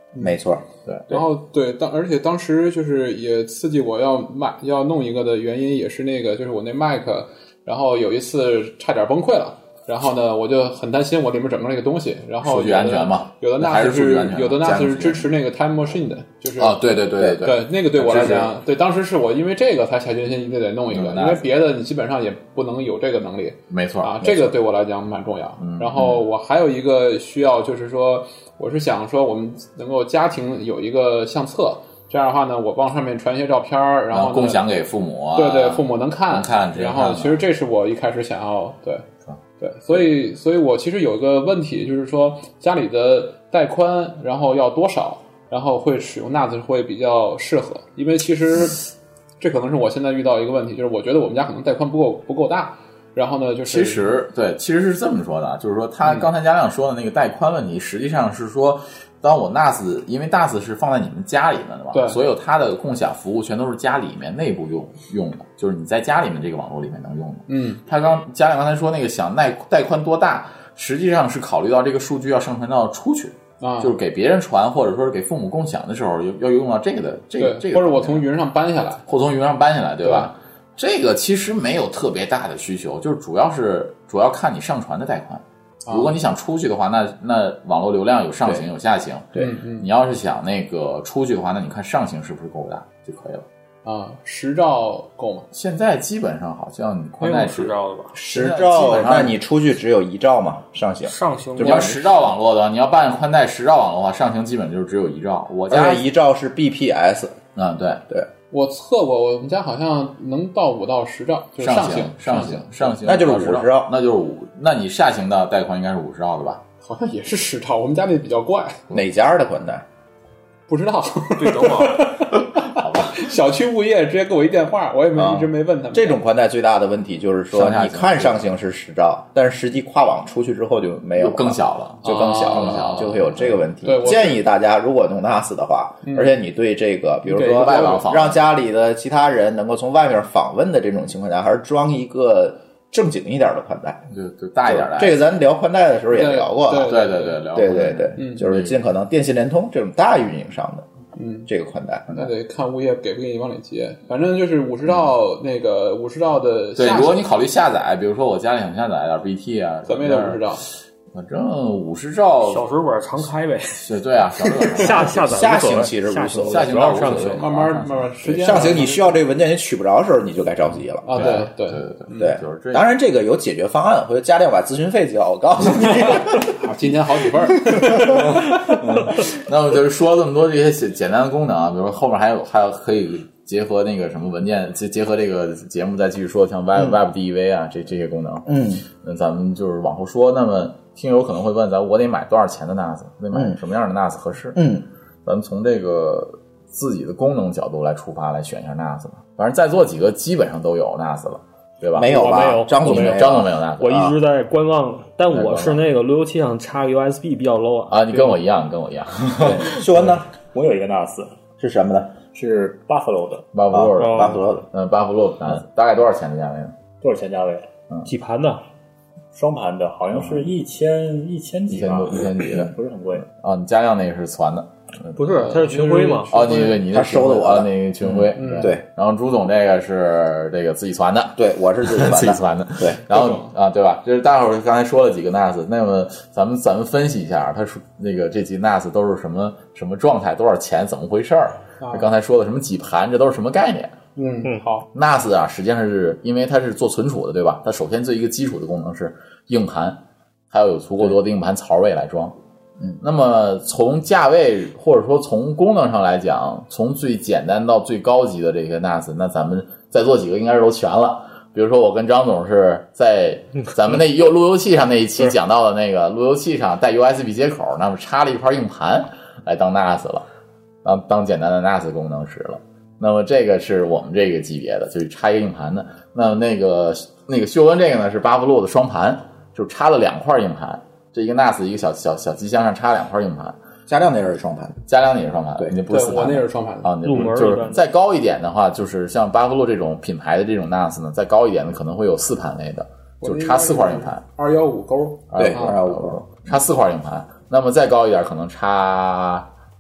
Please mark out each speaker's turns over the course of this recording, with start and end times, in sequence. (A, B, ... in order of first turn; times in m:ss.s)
0:00.2-0:01.2 A
0:01.1-0:34.7 B
0:12.4-0:15.2 C
0:16.6-0:18.5 C
0:20.9-0:21.5 C
0:23.7-0:24.4 C
0:25.6-0:26.2 C
0:34.1-0:37.4 C
0:35.4-0:39.0 B
0:39.6-0:48.9 B
0:49.4-0:54.1 B
0:53.6-1:18.2 C
1:01.9-1:02.2 B
1:07.5-1:07.8 B
1:13.6-1:13.9 B
1:17.4-1:19.0 B
1:19.0-1:33.4 C
1:20.0-1:20.3 B
1:25.9-1:26.1 B
1:29.4-1:29.9 B
1:33.8-1:35.5 B
1:35.5-1:39.4 C
1:37.2-1:38.2 D
1:38.1-1:42.0 A
1:41.0-1:42.0 D
1:41.6-1:46.0 C
1:45.7-1:47.4 A
1:47.5-1:48.0 C
1:48.5-1:52.9 B
1:51.6-1:56.6 C
1:53.0-1:53.9 A
1:56.8-1:58.8 B
1:58.9-1:59.8 A
2:00.7-2:06.2 B
2:01.4-2:02.2 D
2:02.6-2:03.2 C
2:05.1-2:24.0 A
2:07.5-2:08.4 C
2:11.2-2:13.5 C
2:12.0-2:13.1 B
2:13.8-2:14.4 B
2:16.0-2:16.3 B
2:17.3-2:18.1 B
2:17.5-2:18.4 C
2:24.1-2:25.2 C
2:24.7-2:27.0 A
2:26.1-2:27.4 B
2:26.8-2:28.8 C
2:27.5-2:30.9 A
2:28.2-2:28.5 B
2:31.2-2:31.5 B
2:31.5-2:32.2 A
2:32.1-2:37.2 B
2:36.8-2:40.4 C
2:39.9-2:40.6 B
2:41.1-2:45.5 C
2:42.4-2:43.9 D
2:44.4-2:47.4 D
2:45.0-2:46.7 A
2:46.4-2:48.9 C
2:47.1-2:49.1 B
2:48.4-2:51.2 A
2:51.0-2:52.3 B
2:51.1-2:52.8 C
2:52.2-2:56.5 A
2:56.4-2:58.4 B
2:58.6-3:14.6 C
3:08.5-3:08.9 A
3:13.3-3:13.6 A
3:14.5-3:14.9 A
3:15.2-3:22.2 C
3:22.0-3:24.2 A
3:22.0-3:28.4 D
3:22.8-3:24.0 C
3:25.3-3:25.8 C
3:27.9-3:29.8 C
3:29.4-3:31.3 E
3:29.6-3:30.2 A
3:31.6-3:32.1 A
3:32.3-3:33.5 E
3:33.5-3:36.7 C
3:33.7-3:34.6 A
3:34.0-3:34.4 D
3:37.0-3:37.7 E
3:38.0-3:38.6 D
3:39.3-3:43.2 E
3:40.1-3:40.4 C
3:41.7-3:42.7 C
3:43.3-3:45.5 C
3:45.2-3:46.6 D
3:45.3-3:46.7 B
3:46.3-4:04.0 C
3:46.9-3:48.8 A
3:48.4-3:48.7 B
3:51.4-3:53.0 A
3:53.1-3:53.5 B
4:01.8-4:02.1 B
4:04.2-4:04.8 B
4:04.9-4:12.3 C
4:13.0-4:30.2 C
4:30.8-4:43.6 C
4:43.9-4:44.8 A
4:44.9-4:54.2 C
4:45.9-4:46.9 B
4:47.0-4:47.8 D
4:53.2-4:55.8 B
4:55.3-4:59.5 C
4:55.4-4:56.2 A